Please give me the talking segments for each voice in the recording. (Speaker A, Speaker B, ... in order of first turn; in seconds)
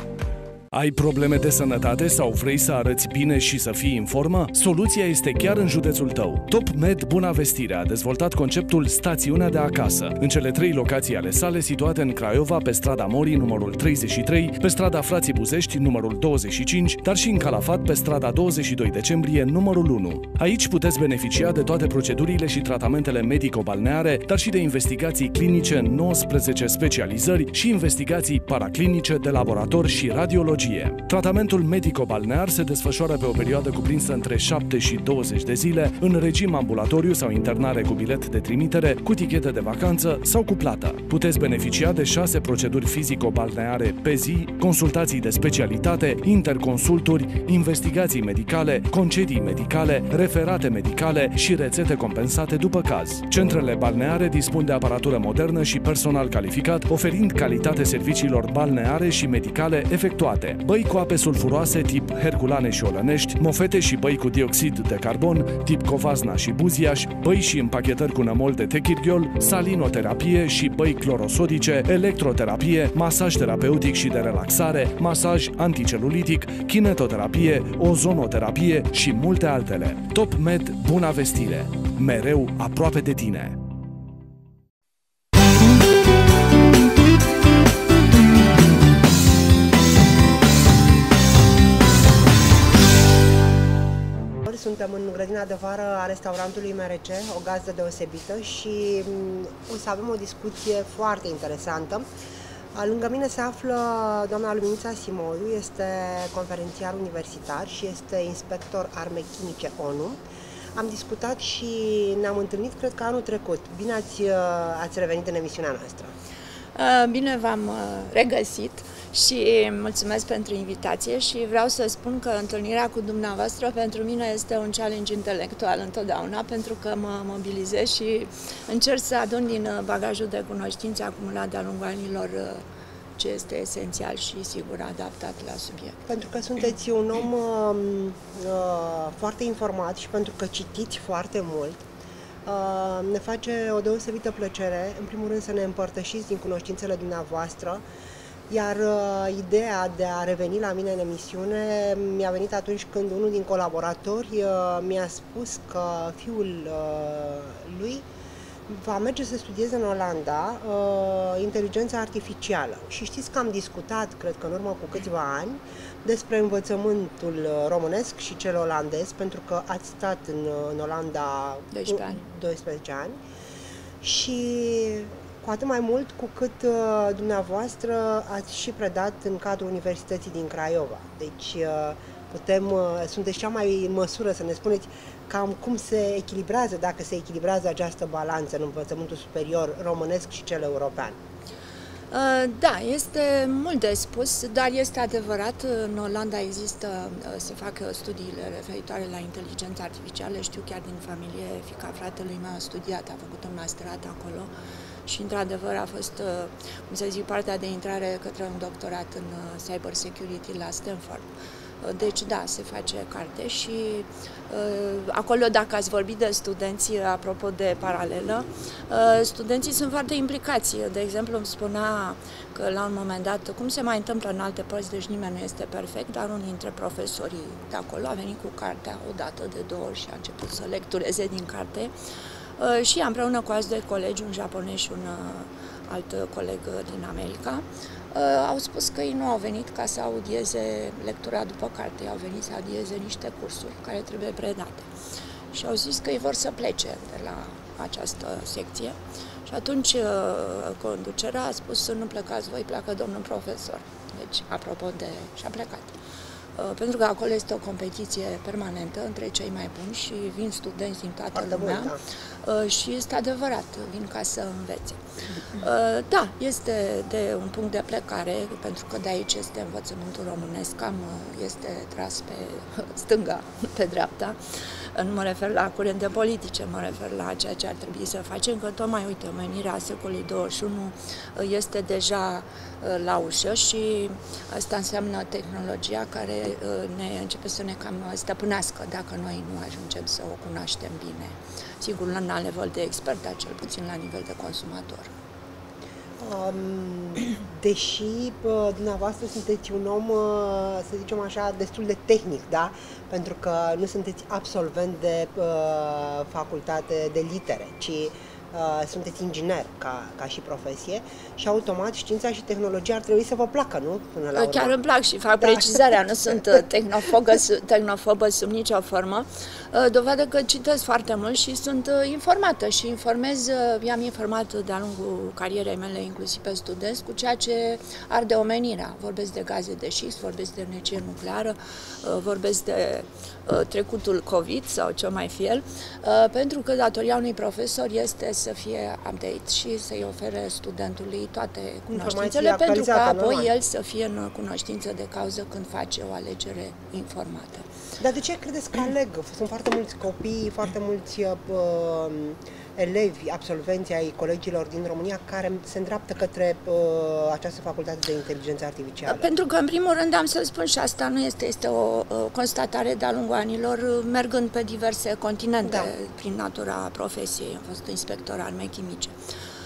Speaker A: 0.7-83.6
Speaker B: 94.5-102.1, 102.7-110.2, 110.7-116.2, 136.1-141.8, 142.4-147.8, 148.5-158.1, 158.7-173.2, 174.0-191.2, 261.3-262.0, 296.2-314.7, 315.4-316.6, 341.9-343.5, 348.0-359.3, 365.6-365.9
Speaker C: 116.8-132.6, 133.2-136.0, 171.7-172.2, 192.1-204.5, 205.1-211.3, 211.8-231.9, 232.6-244.9, 245.5-255.9, 256.6-265.0, 265.6-274.4, 274.9-295.1, 314.4-347.7, 359.1-369.1